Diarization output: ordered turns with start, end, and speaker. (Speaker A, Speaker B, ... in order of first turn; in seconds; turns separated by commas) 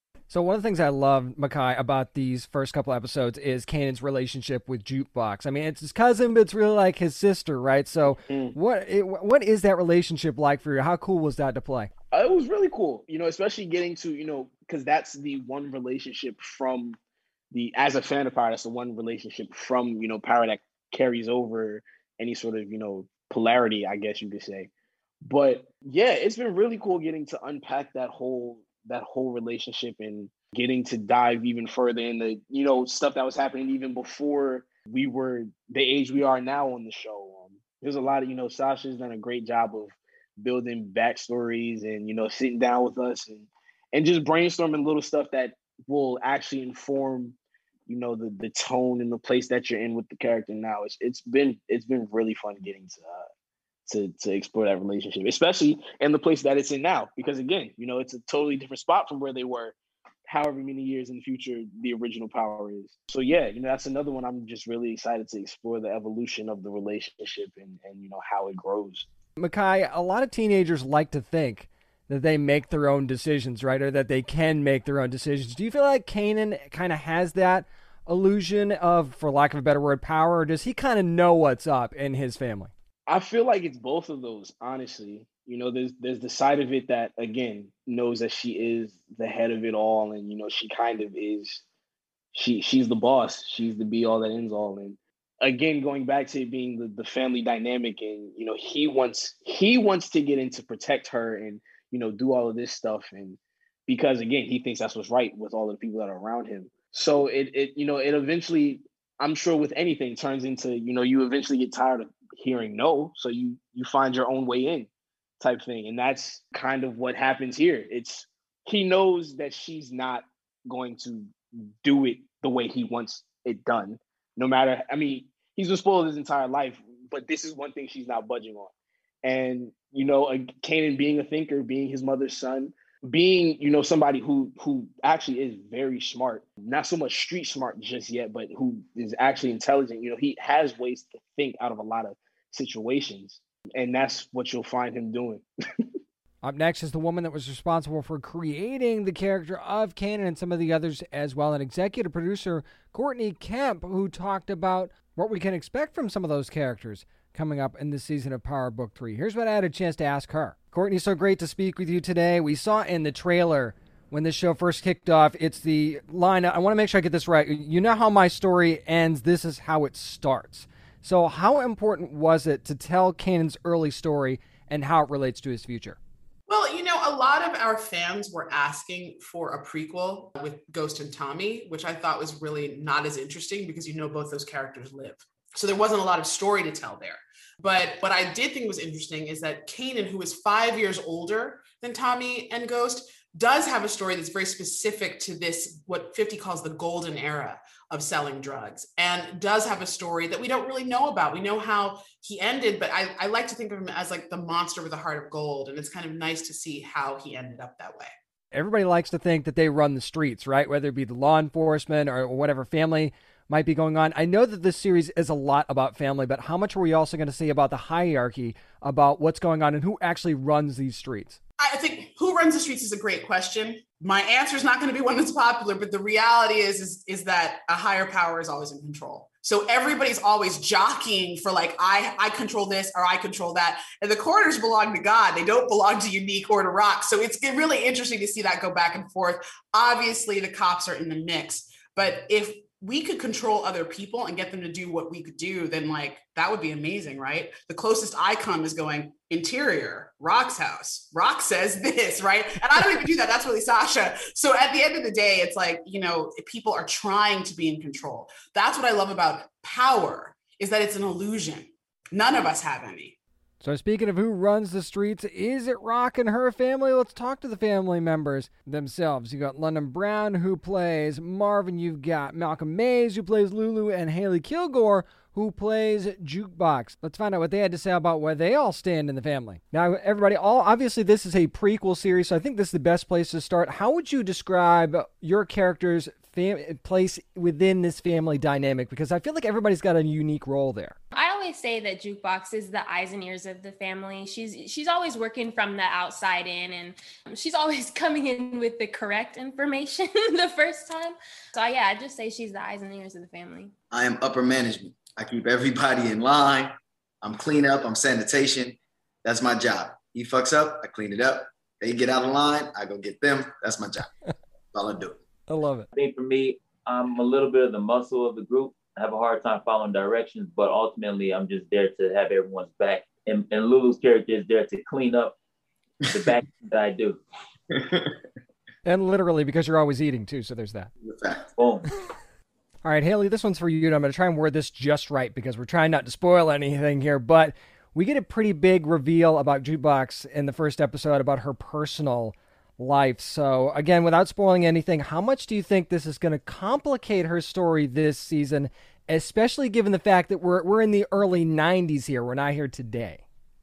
Speaker A: 0.3-11.9, Speaker B: 8.0-8.6, Speaker B: 12.1-17.0, Speaker B: 17.5-24.7, Speaker B: 25.2-47.4, Speaker B: 47.9-53.3, Speaker B: 53.9-69.1, Speaker A: 69.4-82.7, Speaker B: 83.1-91.6, Speaker B: 92.3-114.9, Speaker B: 115.4-128.7, Speaker B: 129.2-145.4, Speaker A: 146.4-176.0, Speaker C: 176.5-208.1, Speaker A: 208.5-221.4, Speaker C: 221.6-263.1, Speaker A: 263.6-291.0, Speaker D: 291.1-303.7, Speaker E: 303.9-314.1, Speaker E: 314.7-315.2, Speaker A: 315.5-315.9, Speaker F: 315.9-325.3, Speaker F: 326.1-327.2, Speaker E: 327.8-328.1, Speaker A: 328.9-330.9, Speaker E: 331.0-331.4, Speaker F: 331.6-331.8, Speaker A: 332.8-353.2